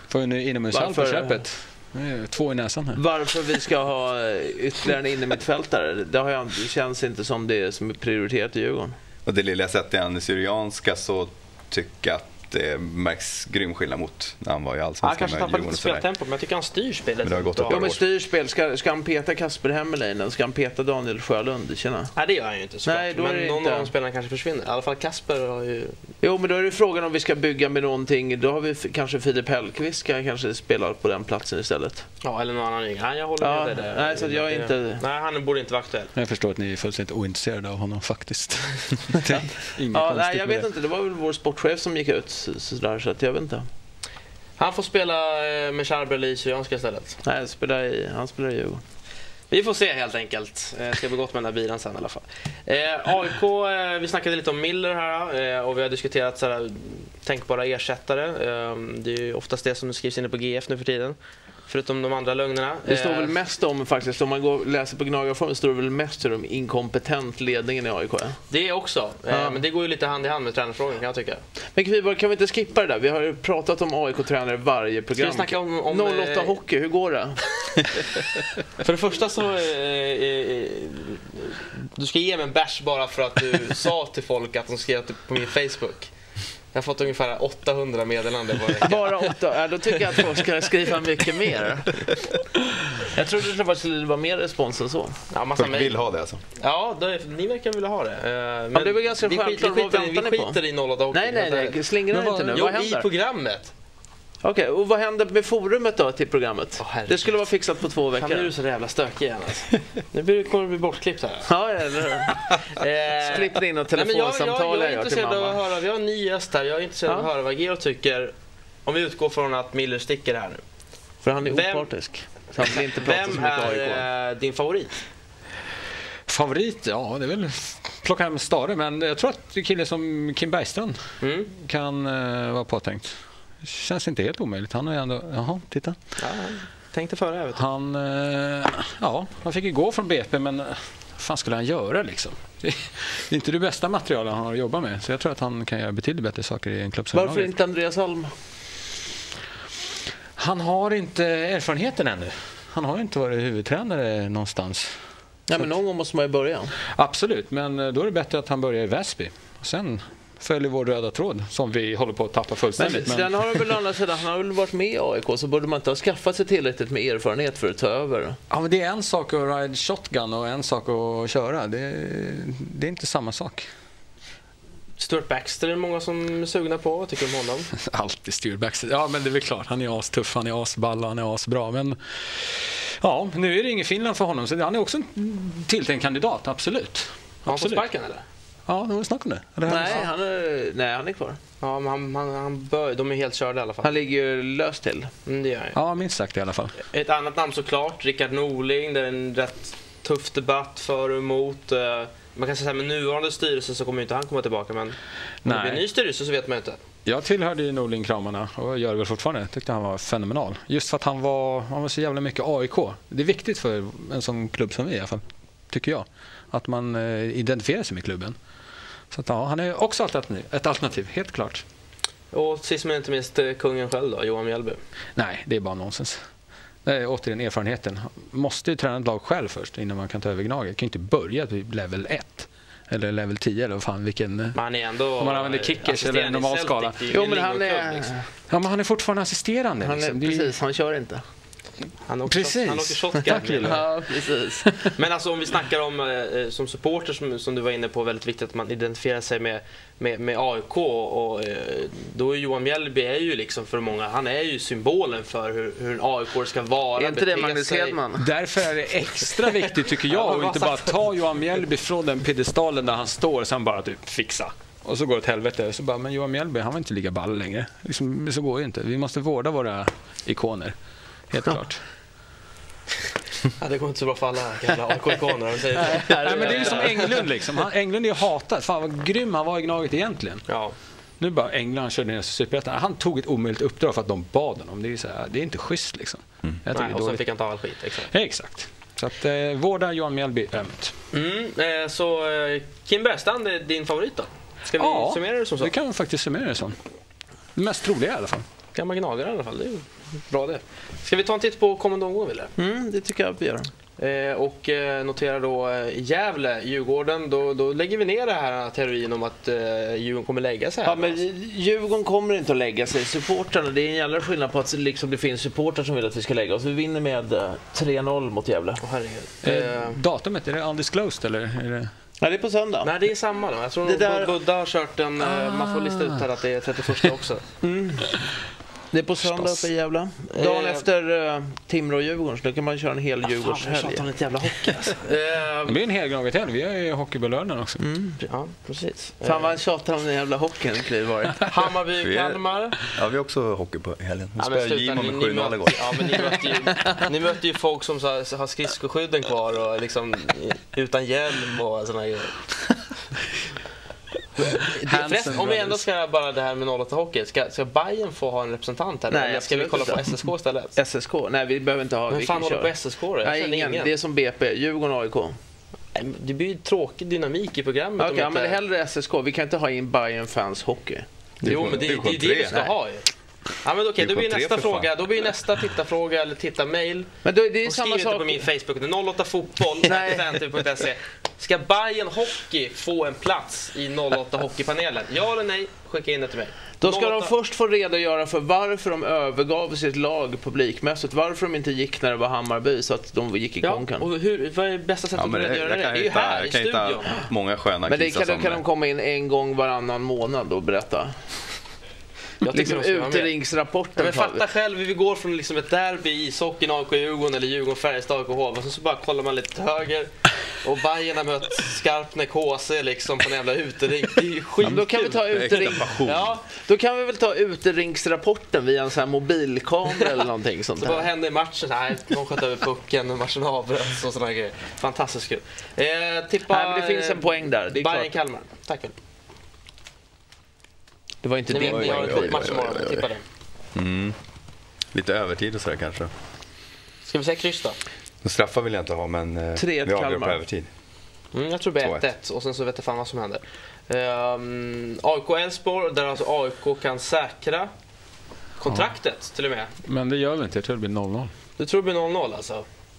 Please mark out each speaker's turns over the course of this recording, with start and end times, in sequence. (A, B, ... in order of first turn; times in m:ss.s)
0:00.1-0:03.0 A
0:00.7-0:01.4 B
0:02.9-0:09.0 B
0:09.2-0:16.0 C
0:15.0-0:17.9 D
0:17.2-0:18.0 C
0:17.7-0:22.1 B
0:22.1-0:26.0 D
0:22.8-0:23.9 B
0:26.2-0:32.0 B
0:32.2-0:36.1 D
0:33.4-0:35.0 B
0:36.1-0:40.7 A
0:39.9-0:43.7 B
0:44.6-0:47.2 D
0:47.2-0:48.8 B
0:49.5-1:03.4 D
1:02.9-1:08.4 B
1:08.5-1:11.4 D
1:09.3-1:09.6 B
1:11.7-1:17.4 B
1:15.2-1:16.6 D
1:18.8-1:26.1 D
1:26.7-1:29.4 D
1:28.8-1:32.1 B
1:32.9-1:35.2 B
1:35.3-1:35.9 D
1:35.6-1:36.4 C
1:36.5-1:41.8 D
1:38.7-1:40.6 B
1:41.1-1:43.1 B
1:42.1-1:42.7 A
1:42.5-1:43.7 D
1:44.4-1:48.5 B
1:46.8-1:47.4 D
1:48.1-1:51.5 D
1:51.5-1:52.4 B
1:52.5-1:58.3 D
1:53.2-1:55.6 B
1:58.8-2:00.6 D
2:01.2-2:04.0 B
2:01.4-2:01.9 D
2:02.6-2:04.9 D
2:06.3-2:11.0 A
2:11.2-2:11.5 D
2:11.6-2:16.0 A
2:16.2-2:17.6 D
2:17.5-2:27.5 A
2:27.1-2:28.3 B
2:30.4-2:34.9 A
2:35.5-2:36.7 B
2:36.9-2:43.7 A
2:42.8-2:48.4 B
2:48.5-2:53.7 A
2:55.0-2:57.7 D
2:57.7-3:07.8 A
3:07.4-3:08.2 D
3:08.7-3:10.1 A
3:09.7-3:11.4 B
3:11.6-3:13.9 D
3:13.8-3:15.1 B
3:15.2-3:15.8 D
3:15.7-3:16.8 A
3:16.9-3:26.8 D
3:25.4-3:25.9 A
3:27.0-3:38.4 A
3:39.1-3:41.6 A
3:42.3-3:44.8 D
3:45.2-3:46.2 A
3:46.8-3:54.6 A
3:54.5-3:58.1 D
3:55.2-3:57.0 A
3:57.1-3:58.3 B
3:58.5-4:00.5 A
3:59.8-4:01.2 B
4:02.0-4:03.8 D
4:02.3-4:03.8 A
4:03.6-4:04.8 B
4:04.9-4:18.0 D
4:17.0-4:18.2 B
4:18.2-4:30.7 A
4:19.4-4:21.0 D
4:31.3-4:31.8 A
4:33.6-4:37.2 D
4:35.8-4:40.4 A
4:36.0-4:37.0 B
4:40.5-4:40.7 D
4:41.2-4:47.2 A
4:46.7-4:48.1 D
4:48.1-4:50.9 A
4:51.1-4:55.7 D
4:54.8-4:56.8 A
4:57.6-4:58.4 A
4:58.7-5:02.5 D
5:02.6-5:03.7 B
5:04.0-5:11.2 D
5:10.8-5:18.8 B
5:18.8-5:20.0 D
5:19.4-5:21.9 A
5:22.2-5:22.9 B
5:22.8-5:27.4 D
5:23.8-5:24.3 B
5:25.2-5:26.2 A
5:27.6-5:28.2 B
5:28.9-5:34.0 B
5:29.2-5:29.7 A
5:30.3-5:30.9 D
5:33.3-5:35.8 D
5:35.6-5:37.8 A
5:37.8-5:38.2 B
5:38.2-5:39.6 D
5:39.2-5:41.5 B
5:41.4-5:42.8 D
5:42.0-5:46.3 C
5:44.4-5:52.4 D
5:54.5-6:00.8 D
5:54.6-5:55.8 A
5:59.1-6:00.1 B
6:00.8-6:05.4 B
6:02.1-6:03.9 D
6:05.9-6:08.6 D
6:08.0-6:11.0 B
6:11.4-6:12.6 C
6:11.4-6:13.1 D
6:13.6-6:17.1 D
6:14.0-6:14.9 C
6:17.2-6:18.4 B
6:17.6-6:27.3 D
6:19.8-6:20.4 B
6:26.8-6:34.0 B
6:33.6-6:37.3 D
6:35.1-6:38.6 C
6:37.9-6:41.2 B
6:42.4-6:43.3 D
6:42.4-6:44.4 B
6:43.9-6:54.8 D
6:54.6-7:01.1 B
6:55.0-6:56.3 C
6:55.8-6:56.4 D
6:59.9-7:00.1 D
7:00.8-7:08.9 D
7:06.4-7:08.1 B
7:11.2-7:12.5 B
7:11.5-7:13.2 D
7:11.5-7:13.0 C
7:13.7-7:14.2 C
7:14.9-7:16.1 C
7:17.0-7:17.8 D
7:18.2-7:20.7 C
7:19.6-7:20.4 B
7:21.3-7:27.7 D
7:21.8-7:22.1 C
7:28.6-7:29.7 D
7:29.8-7:31.3 A
7:31.6-7:32.6 D